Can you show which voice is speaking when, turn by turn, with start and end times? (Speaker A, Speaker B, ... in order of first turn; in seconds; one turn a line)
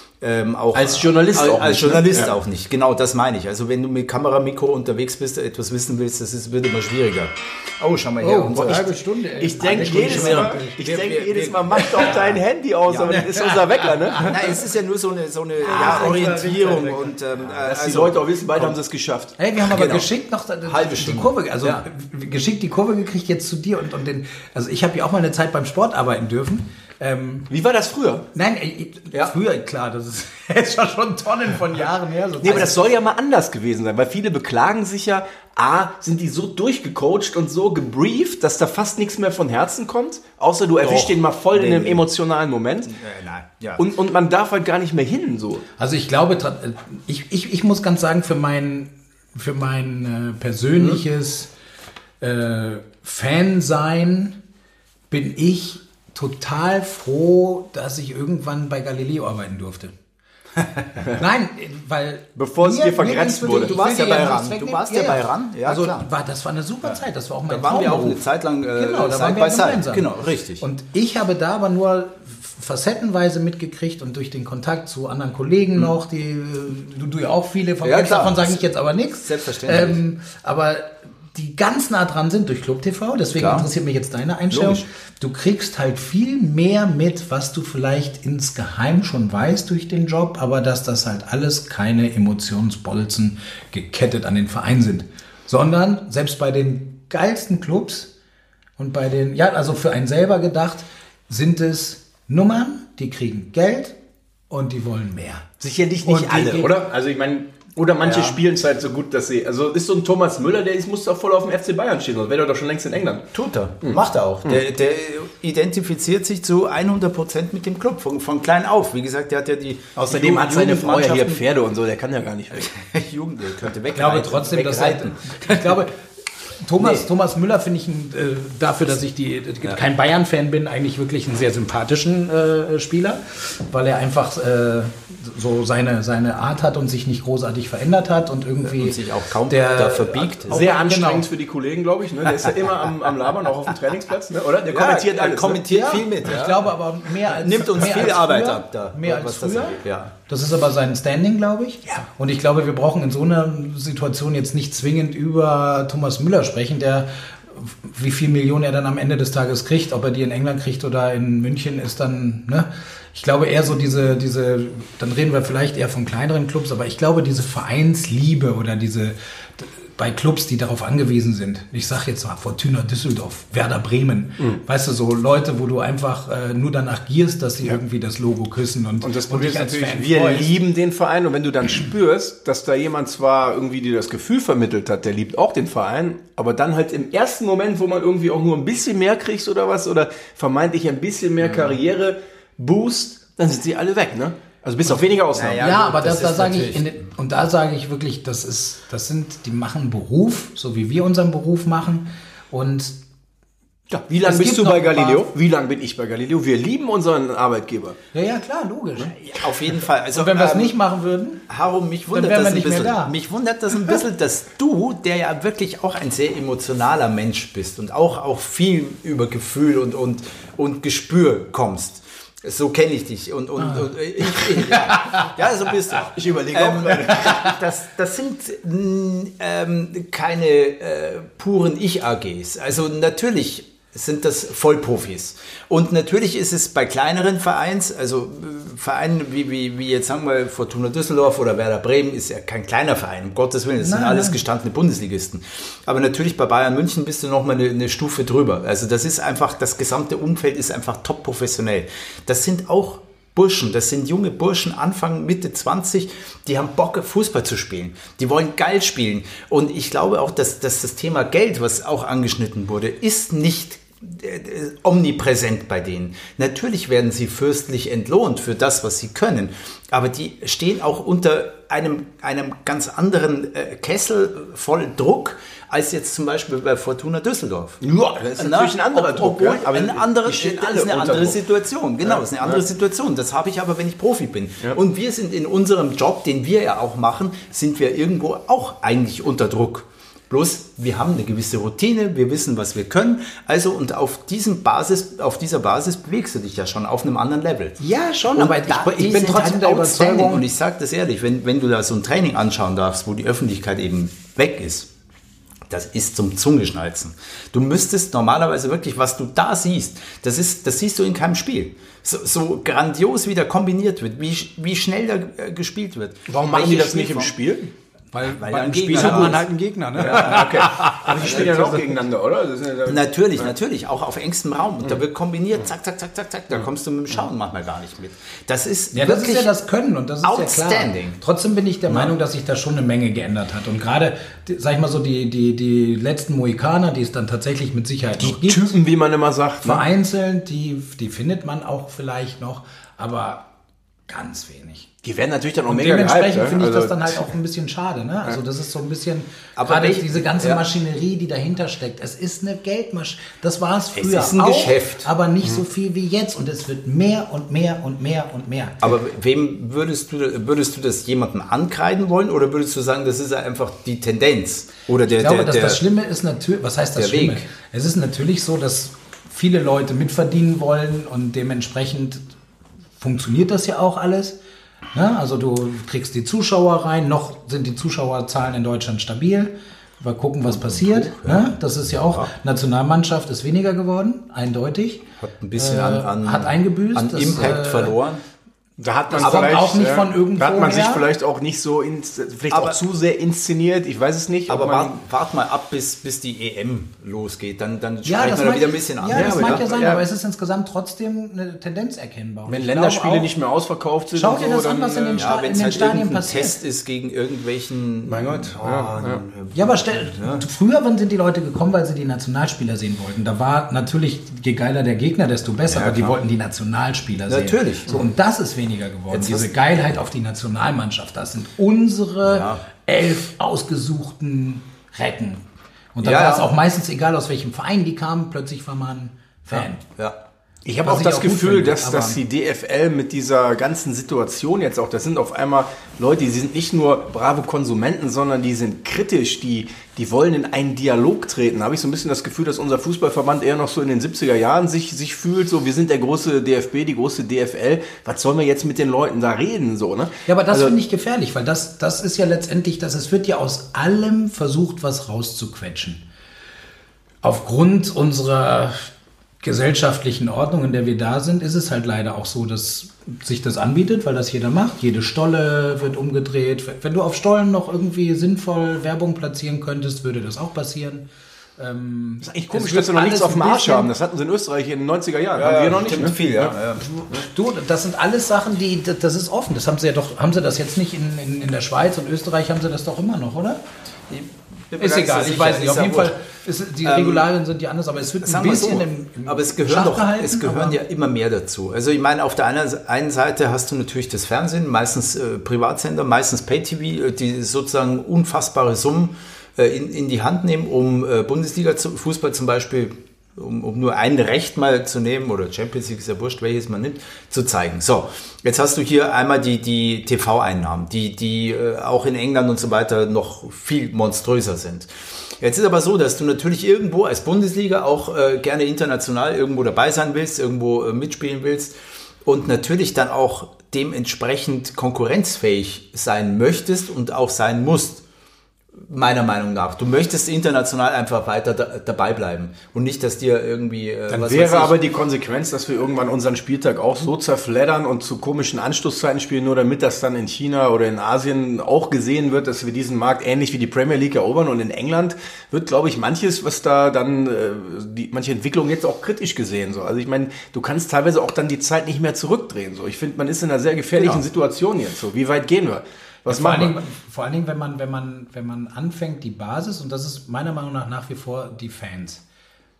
Speaker A: 0.2-9.0
Speaker B: 0.7-2.3
Speaker C: 8.2-11.0
Speaker B: 9.4-14.5
Speaker A: 9.6-13.3
Speaker C: 13.1-14.3
Speaker A: 14.2-18.8
Speaker C: 15.6-17.1
Speaker B: 15.7-16.4
Speaker B: 17.4-20.1
Speaker C: 19.4-27.5
Speaker A: 20.6-21.8
Speaker B: 27.5-28.2
Speaker C: 28.3-32.8
Speaker B: 32.4-42.9
Speaker A: 40.8-42.0
Speaker A: 42.9-43.8
Speaker B: 43.8-45.6
Speaker C: 45.8-51.5
Speaker C: 52.2-54.4
Speaker C: 55.1-59.9
Speaker C: 61.1-68.2
Speaker B: 62.4-63.8
Speaker A: 63.6-66.1
Speaker A: 67.5-70.6
Speaker C: 68.7-98.1
Speaker A: 77.8-78.6
Speaker A: 79.2-80.0
Speaker A: 83.4-83.7
Speaker A: 84.5-84.8
Speaker C: 98.8-104.0
Speaker C: 104.5-105.5
Speaker B: 105.6-113.3
Speaker C: 106.0-106.7
Speaker A: 108.0-108.4
Speaker A: 113.3-121.4
Speaker B: 113.8-114.6
Speaker B: 120.0-122.7
Speaker A: 122.6-125.7
Speaker C: 123.9-125.9
Speaker C: 126.6-141.3
Speaker A: 126.8-127.0
Speaker A: 138.6-140.7
Speaker B: 140.5-145.7
Speaker A: 144.6-146.7
Speaker C: 145.7-180.6
Speaker A: 147.2-150.1
Speaker B: 179.0-195.6
Speaker A: 195.3-196.9
Speaker C: 195.6-203.0
Speaker B: 203.9-208.0
Speaker C: 204.2-205.3
Speaker C: 208.1-209.1
Speaker A: 209.1-210.7
Speaker C: 210.1-211.4
Speaker A: 211.5-277.8
Speaker C: 212.1-213.1
Speaker C: 224.4-225.1
Speaker B: 226.0-227.5
Speaker C: 243.8-244.4
Speaker B: 277.8-281.4
Speaker A: 278.4-297.8
Speaker B: 282.1-282.6
Speaker C: 297.8-300.4
Speaker A: 298.3-304.9
Speaker A: 305.7-317.4
Speaker B: 316.3-317.7
Speaker C: 318.1-322.0
Speaker A: 318.2-319.4
Speaker B: 318.9-319.3
Speaker B: 319.9-323.5
Speaker A: 322.9-329.5
Speaker C: 328.9-338.8
Speaker A: 330.2-331.2
Speaker B: 338.2-339.8
Speaker C: 339.6-343.5
Speaker C: 344.1-344.9
Speaker B: 345.0-347.3
Speaker C: 345.7-358.9
Speaker A: 349.6-350.6
Speaker A: 353.9-355.1
Speaker A: 358.8-365.8
Speaker C: 365.1-372.2
Speaker A: 366.9-367.4
Speaker C: 373.0-374.4
Speaker C: 374.9-385.0
Speaker A: 380.5-381.5
Speaker A: 385.2-388.2
Speaker C: 385.6-388.0
Speaker B: 388.8-395.0
Speaker C: 389.1-391.1
Speaker A: 389.2-389.6
Speaker A: 392.5-392.8
Speaker A: 394.5-399.6
Speaker C: 398.0-403.3
Speaker B: 399.1-400.0
Speaker B: 402.5-405.3
Speaker C: 404.1-406.6
Speaker A: 405.1-410.4
Speaker B: 408.1-409.2
Speaker C: 409.5-429.8
Speaker A: 415.7-416.2
Speaker A: 417.3-417.9
Speaker A: 419.1-419.5
Speaker A: 422.2-422.6
Speaker A: 426.0-426.5
Speaker A: 429.5-430.2
Speaker B: 430.6-450.7
Speaker C: 430.8-432.2
Speaker C: 450.3-456.0
Speaker C: 457.2-473.9
Speaker B: 472.2-476.5
Speaker A: 475.4-477.1
Speaker C: 477.1-483.6
Speaker A: 484.1-486.1
Speaker C: 484.8-490.8
Speaker A: 486.8-487.3
Speaker A: 488.2-514.9
Speaker A: 515.4-521.7
Speaker A: 522.2-528.0
Speaker A: 528.8-534.8
Speaker B: 534.1-556.8
Speaker A: 554.0-554.2
Speaker C: 556.3-562.2